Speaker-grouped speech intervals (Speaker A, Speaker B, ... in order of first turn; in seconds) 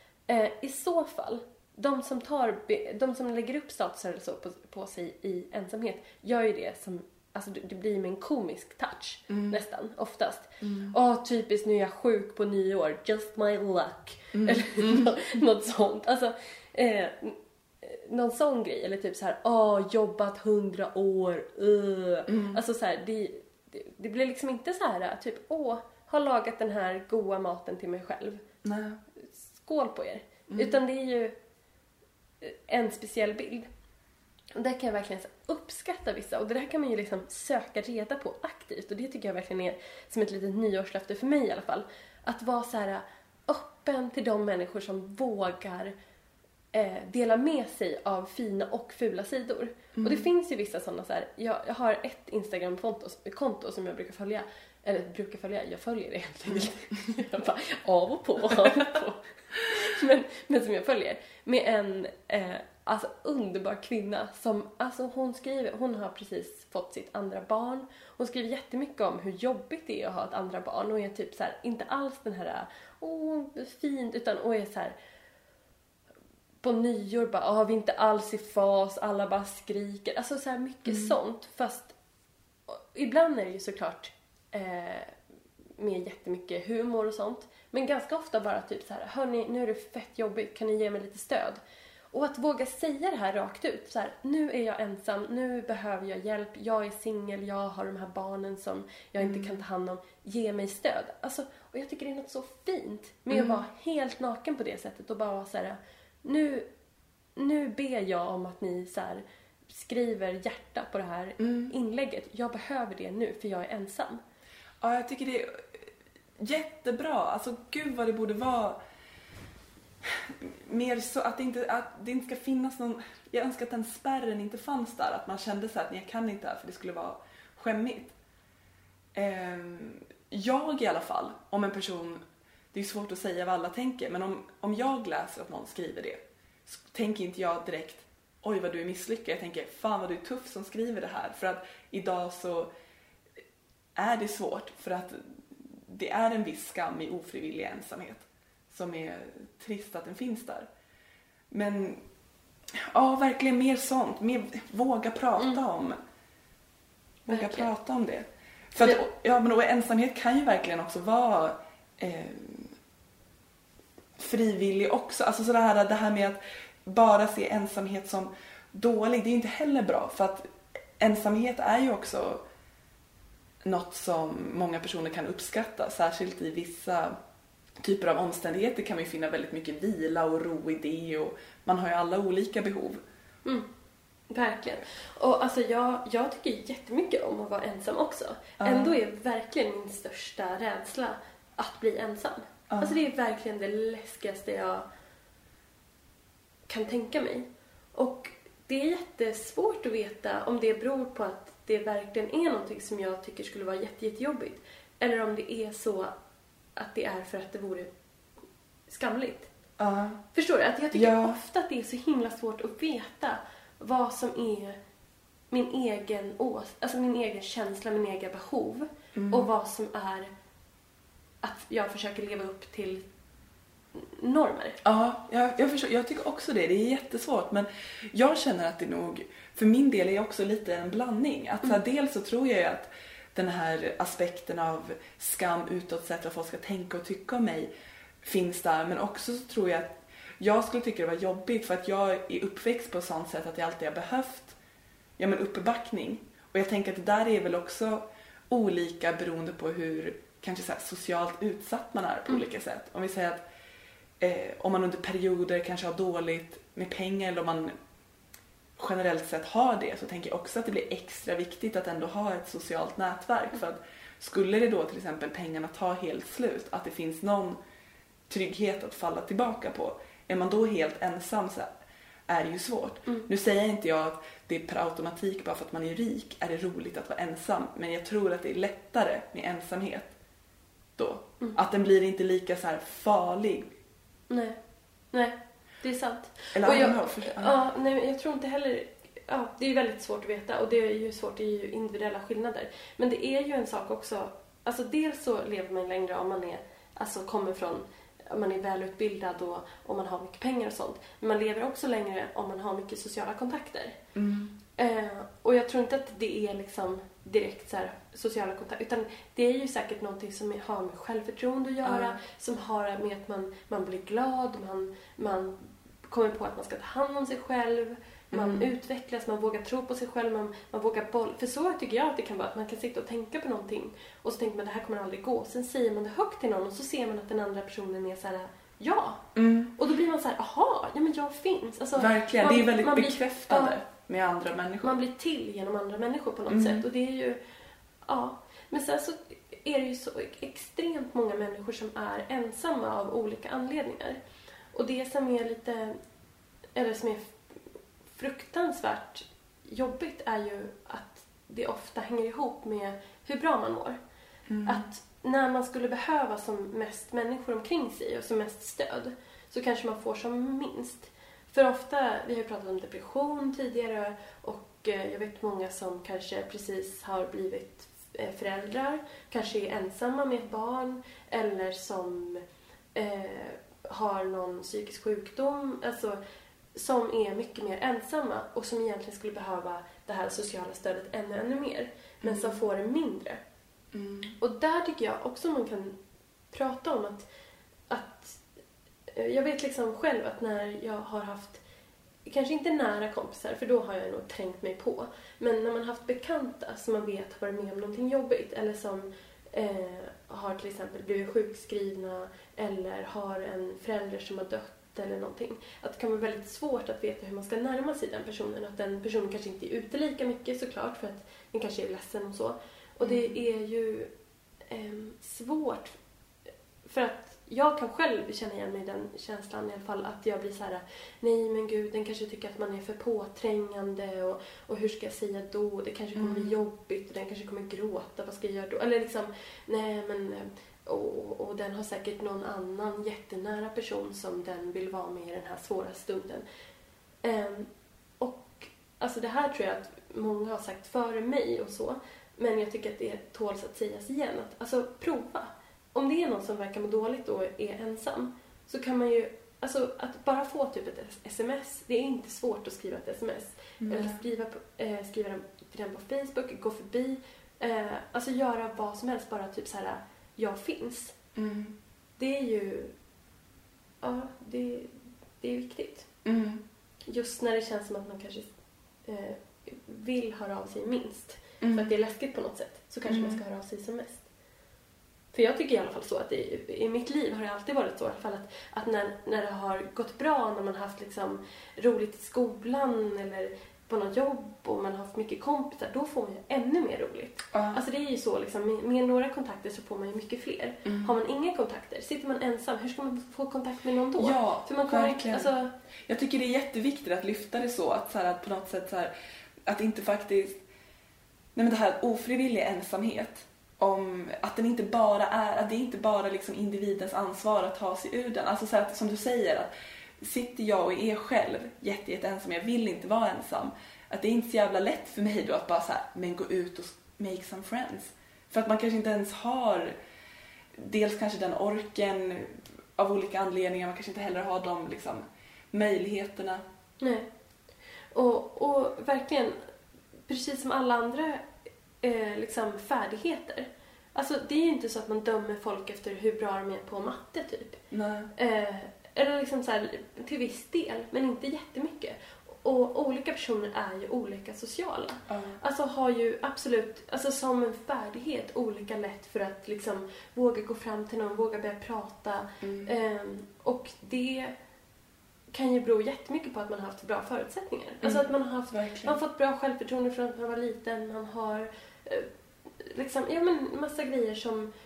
Speaker A: 0.3-28.4, 29.2-31.4, 32.4-33.7, 34.5-45.9, 46.7-75.0, 76.6-81.9, 82.7-85.2, 85.8-91.6, 92.1-106.7, 107.4-114.2, 157.3-157.7, 184.3-194.8, 196.7-206.1, 206.8-207.9, 208.9-209.5, 210.3-214.8, 215.5-220.3, 221.4-223.1, 223.9-224.8, 284.3-284.6, 285.1-304.0, 304.8-333.8, 334.8-337.4, 338.1-344.2, 344.7-346.0, 346.8-347.4, 348.1-354.0, 354.7-376.2, 376.8-383.4, 384.4-386.0, 386.5-387.3, 387.9-388.4, 389.1-391.6, 392.2-414.1, 414.7-416.0, 416.9-436.4, 437.2-461.1, 462.2-462.9, 464.0-466.1, 467.1-468.5, 469.1-474.3, 475.3-495.7, 527.0-527.3, 528.1-529.6, 530.3-531.5, 532.0-537.8, 538.4-554.5, 555.5-562.3, 562.8-564.7
Speaker B: 9.3-9.6, 10.6-11.0, 14.3-15.2, 22.3-22.6, 28.6-29.0, 30.5-30.8, 50.0-50.3, 80.9-81.2, 99.2-99.6, 103.3-103.6, 111.4-111.7, 114.8-115.9, 116.4-118.8, 120.0-128.1, 129.2-132.2, 132.7-142.7, 144.0-150.7, 151.5-152.0, 152.7-156.0, 157.3-162.7, 164.2-170.5, 171.0-172.4, 173.6-177.2, 177.8-183.0, 188.6-189.0, 192.7-193.0, 209.8-210.2, 210.9-211.4, 219.2-219.5, 224.8-237.7, 238.2-244.6, 245.2-253.4, 254.2-257.7, 258.8-267.6, 268.3-271.7, 272.3-280.1, 281.0-283.7, 286.6-287.6, 304.1-304.6, 311.8-312.2, 318.3-318.7, 329.4-329.8, 332.0-335.0, 336.5-336.9, 354.5-354.9, 382.2-382.6, 383.9-384.4, 413.0-413.4, 426.2-426.6, 453.8-454.2, 461.4-461.8, 466.2-466.6, 471.6-471.9, 473.1-473.4, 487.5-487.8, 490.9-491.1, 494.2-495.5, 496.1-499.1, 499.7-500.6, 501.6-520.0, 520.8-526.6, 537.9-538.3, 545.3-545.6, 552.6-552.9, 558.0-559.2